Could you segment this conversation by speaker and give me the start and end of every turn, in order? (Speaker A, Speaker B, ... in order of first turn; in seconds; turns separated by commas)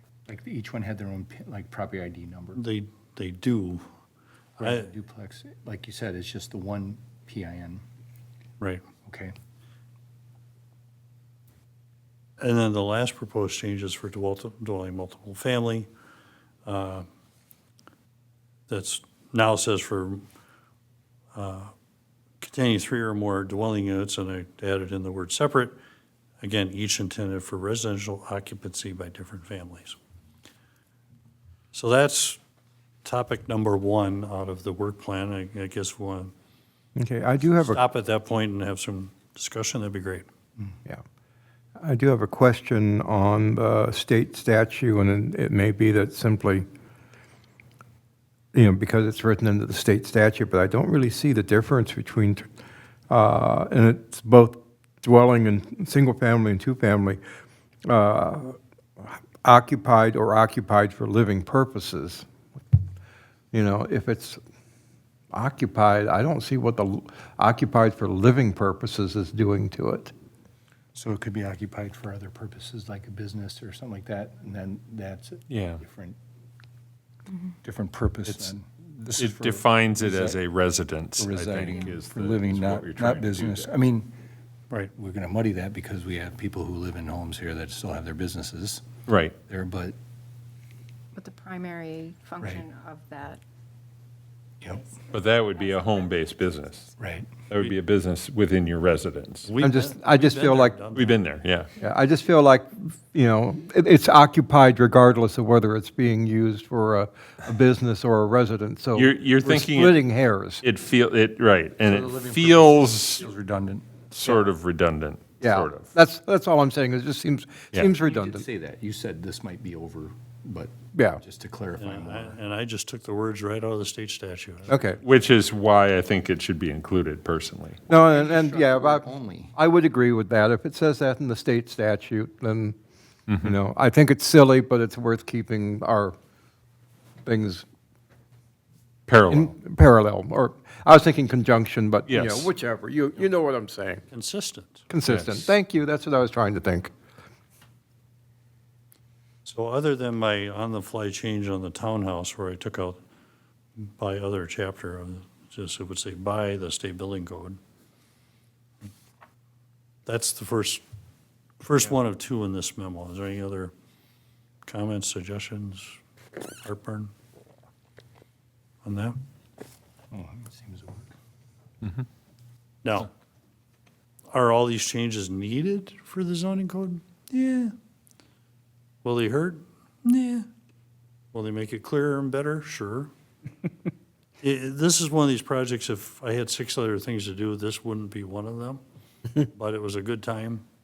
Speaker A: 0.3-2.6, Speaker B: 2.5-3.9, Speaker A: 4.6-7.8, Speaker B: 4.6-4.9, Speaker A: 9.1-9.3, Speaker B: 12.4-15.9, Speaker B: 16.7-17.1, Speaker B: 18.7-20.2, Speaker B: 21.3-21.7, Speaker B: 22.4-25.8, Speaker B: 26.4-30.0, Speaker B: 31.7-32.4, Speaker B: 33.0-36.3, Speaker C: 37.0-37.8, Speaker B: 37.6-40.3, Speaker C: 41.8-46.6, Speaker C: 48.5-52.5, Speaker C: 53.1-57.2, Speaker C: 57.9-62.3, Speaker C: 63.5-64.4, Speaker C: 65.3-70.1, Speaker A: 70.9-76.2, Speaker D: 75.5-75.8, Speaker A: 77.6-80.4, Speaker D: 78.3-78.5, Speaker D: 79.1-83.7, Speaker A: 81.2-84.1, Speaker A: 84.9-88.8, Speaker D: 89.1-89.4, Speaker A: 89.5-90.0, Speaker E: 91.2-93.4, Speaker A: 92.4-92.7, Speaker D: 95.1-96.9, Speaker E: 95.5-96.2, Speaker A: 97.0-97.3, Speaker D: 97.5-99.5, Speaker B: 99.4-101.2, Speaker C: 99.6-100.8, Speaker D: 100.9-101.7, Speaker C: 101.8-110.6, Speaker D: 109.0-110.1, Speaker D: 110.6-113.3, Speaker A: 111.8-113.9, Speaker D: 114.1-115.9, Speaker C: 115.4-118.5, Speaker A: 117.9-122.4, Speaker C: 120.9-121.2, Speaker B: 121.8-125.0, Speaker C: 124.7-125.0, Speaker D: 125.0-127.8, Speaker C: 127.9-132.8, Speaker A: 127.9-129.5, Speaker D: 133.3-133.6, Speaker C: 133.4-136.2, Speaker C: 137.2-137.7, Speaker D: 139.1-139.5, Speaker C: 139.3-144.0, Speaker D: 142.1-142.5, Speaker B: 144.1-144.9, Speaker C: 144.9-146.9, Speaker D: 145.1-145.5, Speaker B: 149.4-153.0, Speaker B: 153.8-157.6, Speaker B: 160.1-160.8, Speaker B: 161.6-163.7, Speaker B: 164.7-166.0, Speaker B: 166.6-167.1, Speaker B: 168.8-169.2, Speaker A: 170.1-171.1, Speaker B: 172.8-173.1, Speaker B: 174.3-177.8, Speaker B: 179.0-180.5, Speaker B: 181.3-183.1, Speaker B: 184.4-188.8, Speaker B: 189.4-190.7